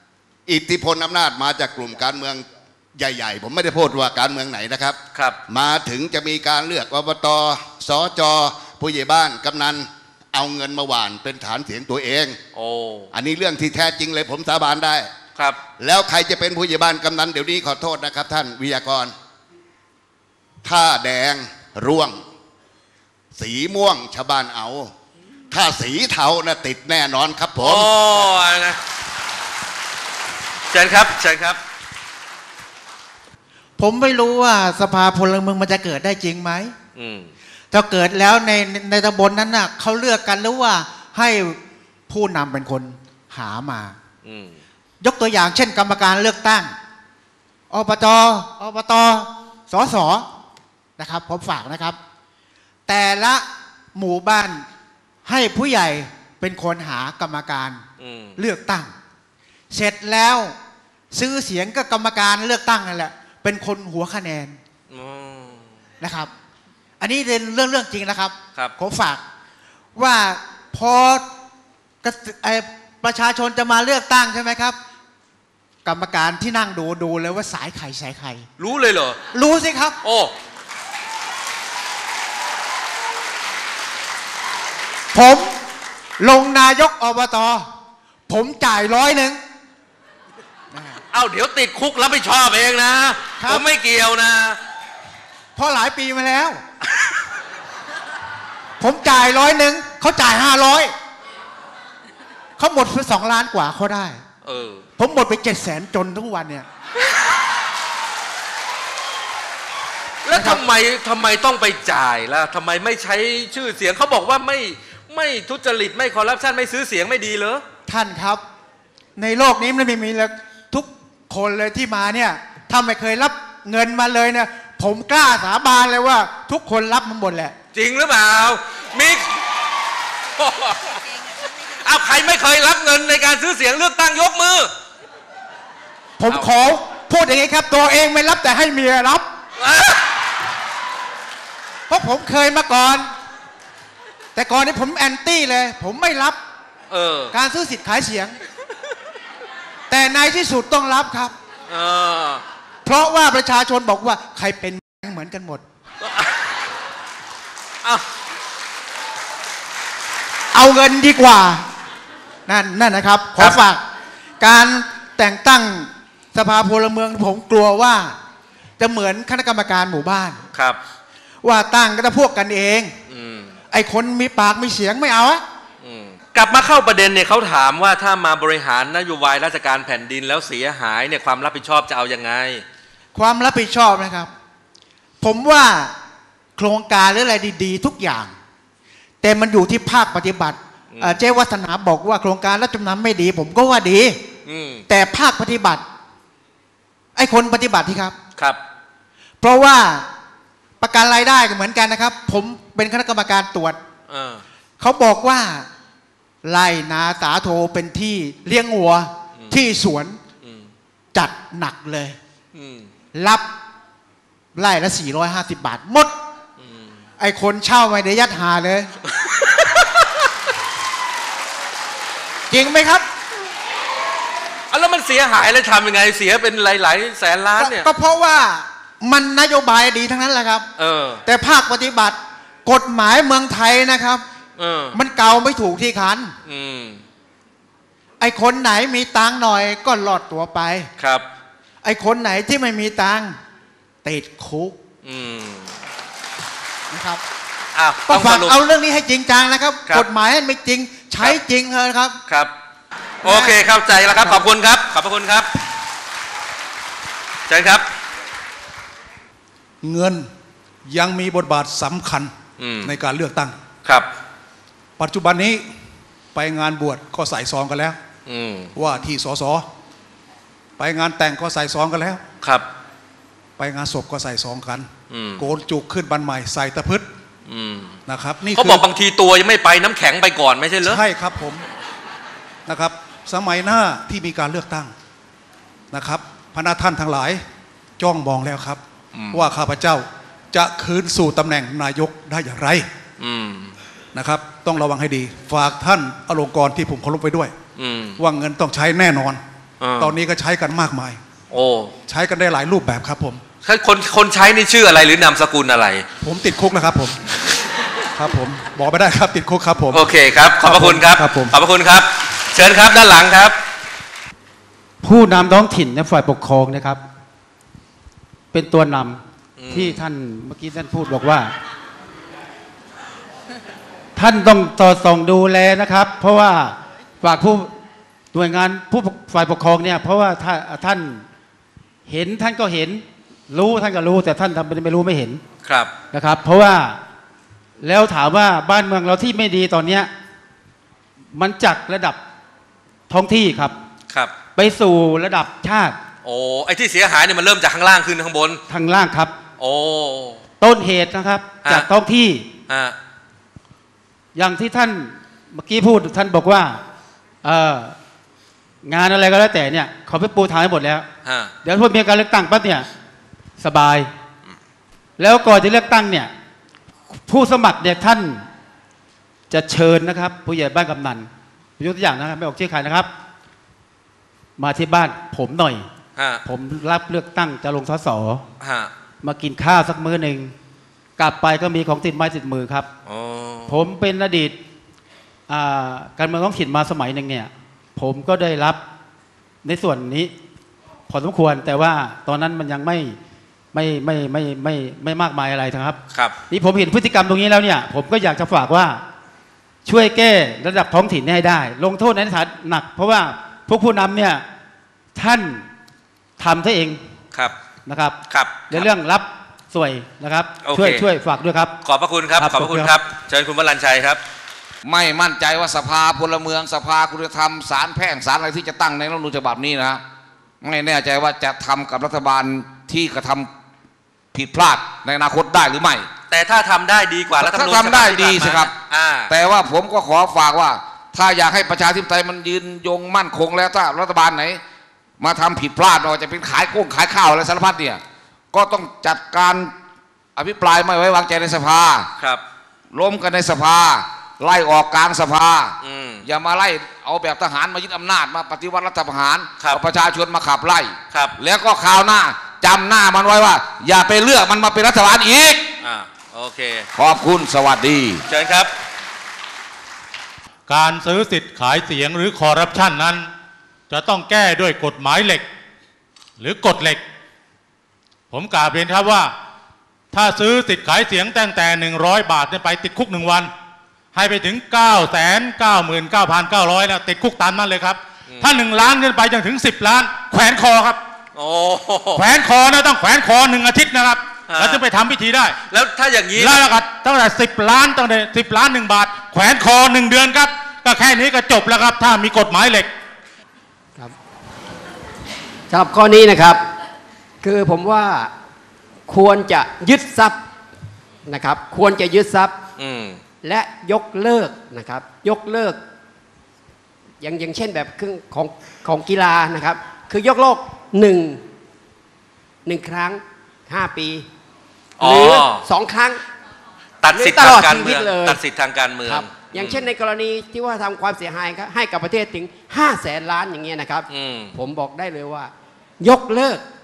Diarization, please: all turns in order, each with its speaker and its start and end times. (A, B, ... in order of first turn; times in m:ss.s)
0:00.5-0:12.4 A
0:12.5-0:13.1 B
0:13.1-0:15.1 A
0:15.8-0:19.1 A
0:20.6-0:22.2 A
0:23.3-0:24.9 A
0:25.5-0:28.2 A
0:27.6-0:28.8 B
0:30.7-0:31.6 B
0:33.8-0:36.7 C
0:37.0-0:37.3 B
0:37.7-0:44.0 C
0:44.2-0:44.6 B
0:45.0-0:46.8 C
0:47.7-0:50.3 C
0:51.0-0:52.0 C
0:52.9-0:54.6 C
0:55.2-0:57.8 C
0:58.0-0:58.4 B
0:58.4-0:58.9 C
0:59.7-1:00.5 C
1:01.1-1:04.6 C
1:04.9-1:05.7 B
1:06.0-1:06.3 C
1:07.0-1:09.2 C
1:10.0-1:11.3 C
1:12.0-1:14.8 C
1:15.8-1:18.4 C
1:18.6-1:19.2 B
1:19.3-1:20.0 C
1:20.0-1:20.3 B
1:25.1-1:25.6 C
1:26.2-1:27.7 C
1:28.3-1:29.4 C
1:30.7-1:31.0 C
1:31.1-1:34.6 B
1:33.4-1:33.6 C
1:35.6-1:36.6 C
1:38.8-1:40.9 C
1:42.6-1:44.2 C
1:44.4-1:44.8 B
1:45.0-1:46.6 C
1:50.2-1:57.6 B
1:50.3-1:50.6 C
1:57.9-1:58.4 C
1:59.2-2:07.6 C
2:07.7-2:09.4 B
2:10.4-2:14.7 B
2:16.2-2:19.3 C
2:19.6-2:20.1 B
2:21.9-2:23.1 C
2:24.3-2:26.4 C
2:26.9-2:27.3 B
2:27.3-2:28.4 C
2:29.9-2:31.3 C
2:31.7-2:32.4 B
2:32.8-2:35.6 C
2:36.0-2:36.3 B
2:40.5-2:41.7 C
2:42.4-2:43.8 C
2:44.4-2:48.2 C
2:48.8-2:50.4 C
2:51.4-2:52.9 C
2:53.1-2:53.5 B
2:53.7-2:55.4 C
2:55.8-3:02.6 B
3:03.1-3:04.3 C
3:05.2-3:05.9 C
3:06.6-3:08.3 C
3:09.2-3:14.2 C
3:10.9-3:11.2 B
3:14.4-3:14.8 B
3:14.9-3:15.8 C
3:17.2-3:18.2 C
3:19.4-3:20.1 C
3:20.8-3:23.8 C
3:24.1-3:24.4 B
3:24.8-3:25.7 C
3:26.4-3:30.2 C
3:30.4-3:30.7 B
3:31.1-3:32.2 C
3:32.5-3:32.9 B
3:33.1-3:33.5 C
3:34.5-3:36.2 C
3:36.6-3:36.9 B
3:37.2-3:38.9 C
3:39.1-3:40.0 B
3:42.5-3:43.1 C
3:44.7-3:47.9 B
3:47.6-3:50.7 C
3:50.8-3:51.2 B
3:51.2-3:54.2 C
3:54.6-3:55.0 B
3:54.9-3:56.3 C
3:56.4-3:57.0 B
3:58.2-4:00.9 C
4:01.0-4:01.2 B
4:01.8-4:03.4 C
4:04.0-4:04.8 C
4:05.0-4:05.8 B
4:06.9-4:07.2 C
4:07.8-4:08.6 B
4:08.1-4:12.2 C
4:13.2-4:14.4 C
4:13.2-4:15.5 B
4:17.5-4:17.8 B
4:19.8-4:20.3 D
4:20.8-4:22.3 D
4:22.6-4:22.9 B
4:22.8-4:23.6 D
4:25.0-4:25.7 D
4:26.3-4:28.0 D
4:28.3-4:28.7 B
4:28.8-4:29.6 D
4:30.8-4:32.2 D
4:33.6-4:37.1 D
4:35.1-4:35.4 B
4:37.5-4:38.0 B
4:38.1-4:38.8 D
4:38.5-4:41.0 B
4:40.8-4:41.6 D
4:42.7-4:44.9 D
4:45.9-4:47.4 D
4:48.0-4:48.8 D
4:49.1-4:49.4 B
4:49.3-4:52.9 D
4:53.2-4:53.8 B
4:54.1-4:57.5 D
4:57.8-4:58.2 B
4:58.2-4:59.4 D
4:59.8-5:00.2 B
5:00.0-5:01.2 D
5:01.5-5:01.9 B
5:02.1-5:03.4 D
5:03.6-5:06.0 B
5:06.2-5:07.2 D
5:08.2-5:11.6 D
5:09.9-5:13.6 B
5:15.0-5:17.0 E
5:18.5-5:21.5 E
5:19.6-5:20.0 B
5:24.2-5:27.7 E
5:28.3-5:31.2 E
5:32.1-5:35.4 E
5:35.6-5:35.9 B
5:36.1-5:37.0 E
5:37.8-5:40.1 E
5:41.3-5:42.2 E
5:43.1-5:43.8 E
5:44.6-5:46.0 E
5:46.2-5:48.6 B
5:48.7-5:49.3 E
5:49.6-5:50.4 B
5:50.6-5:52.5 E
5:52.7-5:53.0 B
5:54.3-5:56.8 E
5:57.4-5:58.0 E
5:58.8-6:01.0 E
6:01.2-6:01.5 B
6:01.6-6:02.9 E
6:03.6-6:04.1 E
6:05.2-6:06.3 E
6:07.1-6:08.5 E
6:09.5-6:13.1 E
6:14.6-6:15.9 E
6:16.2-6:16.4 B
6:16.4-6:18.4 E
6:18.6-6:18.9 B
6:19.2-6:20.5 E
6:21.2-6:22.9 E
6:23.0-6:23.7 B
6:23.7-6:24.6 E
6:25.5-6:28.8 E
6:29.6-6:30.3 E
6:31.1-6:33.2 E
6:33.7-6:36.0 E
6:36.5-6:39.0 E
6:39.8-6:44.4 E
6:45.2-6:45.7 E
6:46.4-6:47.0 E
6:47.8-6:48.2 E
6:48.3-6:48.9 B
6:48.7-6:51.7 E
6:50.6-6:51.0 B
6:51.8-6:54.2 B
6:52.4-6:52.9 E
6:54.8-7:00.0 F
7:00.6-7:03.5 F
7:04.3-7:06.1 F
7:06.3-7:09.3 B
7:07.3-7:08.7 F
7:09.3-7:14.6 F
7:15.2-7:19.7 F
7:20.4-7:22.0 F
7:22.9-7:35.7 F
7:25.8-7:26.2 B
7:35.8-7:36.8 B
7:36.9-7:38.2 F
7:38.3-7:38.7 B
7:40.7-7:43.3 G
7:43.9-7:45.4 G
7:46.4-7:47.0 G
7:48.3-7:49.3 G
7:50.1-7:53.5 G
7:54.1-8:01.0 G
8:01.4-8:02.2 B
8:02.1-8:05.6 G
8:04.5-8:04.8 B
8:05.7-8:06.8 B
8:06.3-8:12.9 G
8:15.7-8:16.6 H
8:17.4-8:18.3 H
8:19.1-8:20.4 H
8:21.3-8:22.6 H
8:22.8-8:23.2 B
8:23.4-8:25.8 H
8:27.2-8:31.4 H
8:32.6-8:34.2 H
8:35.0-8:35.6 B
8:35.0-8:36.2 H
8:37.0-8:39.8 B
8:37.1-8:38.4 H
8:39.0-8:46.6 H
8:44.1-8:44.5 B